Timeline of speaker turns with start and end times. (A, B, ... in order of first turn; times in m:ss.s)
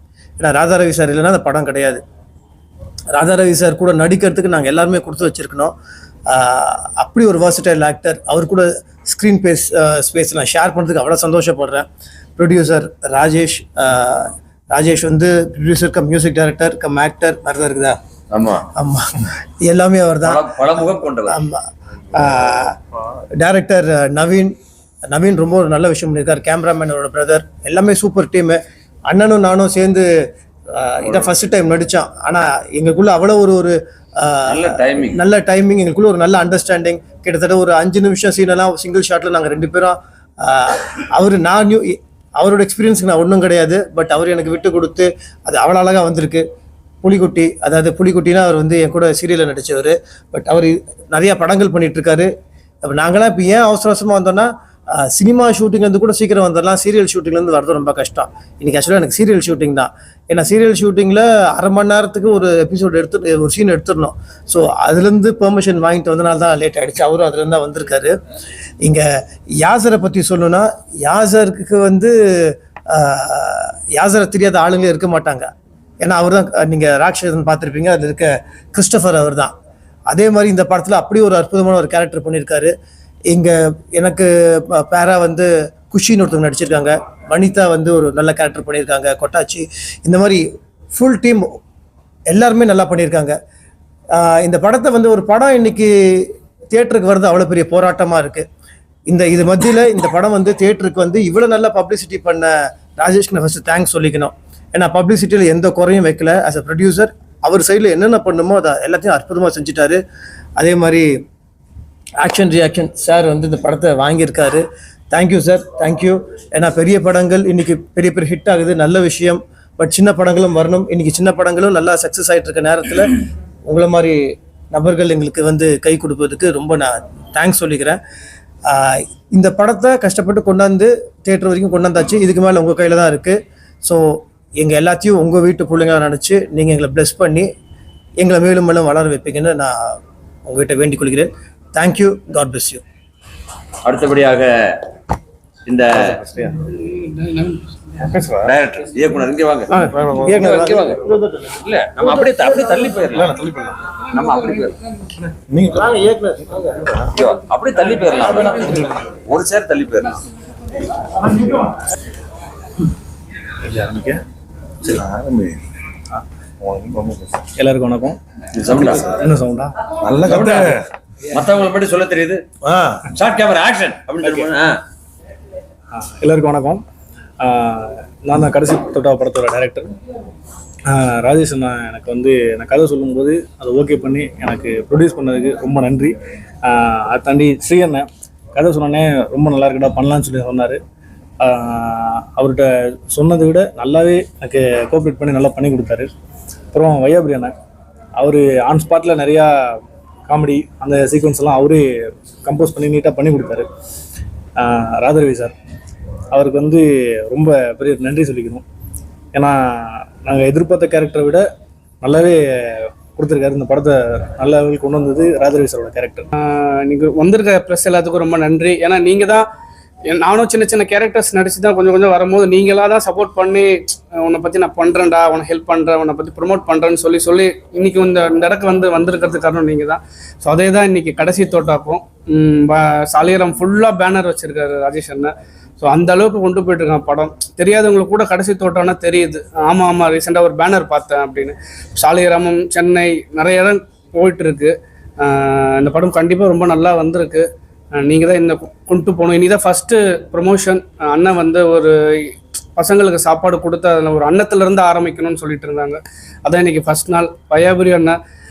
0:00.4-0:02.0 A
0:03.1-0:05.7 A
0:06.3-0:18.0 A
0:18.3-0:18.7 B
0:18.8-0:22.8 A
0:20.2-0:21.4 B
0:23.4-0:46.4 A
0:34.4-0:35.2 B
0:47.0-0:52.3 A
0:52.8-1:08.2 A
1:08.8-1:09.1 A
1:09.6-1:19.5 A
1:20.1-1:22.7 A
1:23.3-1:31.6 A
1:32.3-1:33.4 A
1:34.1-1:38.5 A
1:39.1-1:50.0 A
1:50.6-1:51.2 A
1:52.2-2:08.0 A
2:08.7-2:17.5 A
2:18.2-2:22.8 A
2:23.8-2:24.8 B
2:25.7-2:26.2 B
2:25.9-2:26.6 C
2:26.7-2:27.7 D
2:28.0-2:28.5 C
2:28.4-2:29.7 B
2:29.7-2:32.9 A
2:29.9-2:30.9 C
2:30.4-2:31.0 B
2:31.6-2:33.4 B
2:33.1-2:33.8 C
2:34.1-2:34.8 B
2:35.5-2:36.0 C
2:35.7-2:36.7 A
2:36.5-2:37.1 C
2:37.1-2:40.2 B
2:41.2-2:41.8 E
2:43.7-2:44.1 C
2:44.8-2:45.6 C
2:46.6-2:47.4 C
2:47.6-2:49.7 E
2:48.5-2:49.2 B
2:50.0-2:50.8 C
2:50.2-2:50.7 B
2:51.3-2:52.4 B
2:53.1-2:54.8 B
2:55.9-2:56.8 E
2:57.4-3:00.0 E
3:00.9-3:10.8 E
3:11.4-3:16.1 E
3:16.7-3:17.5 E
3:18.2-3:19.8 E
3:20.3-3:23.7 E
3:24.6-3:25.6 E
3:26.3-3:28.6 E
3:29.3-3:31.5 E
3:32.0-3:36.3 E
3:36.3-3:39.5 D
3:40.1-4:18.2 D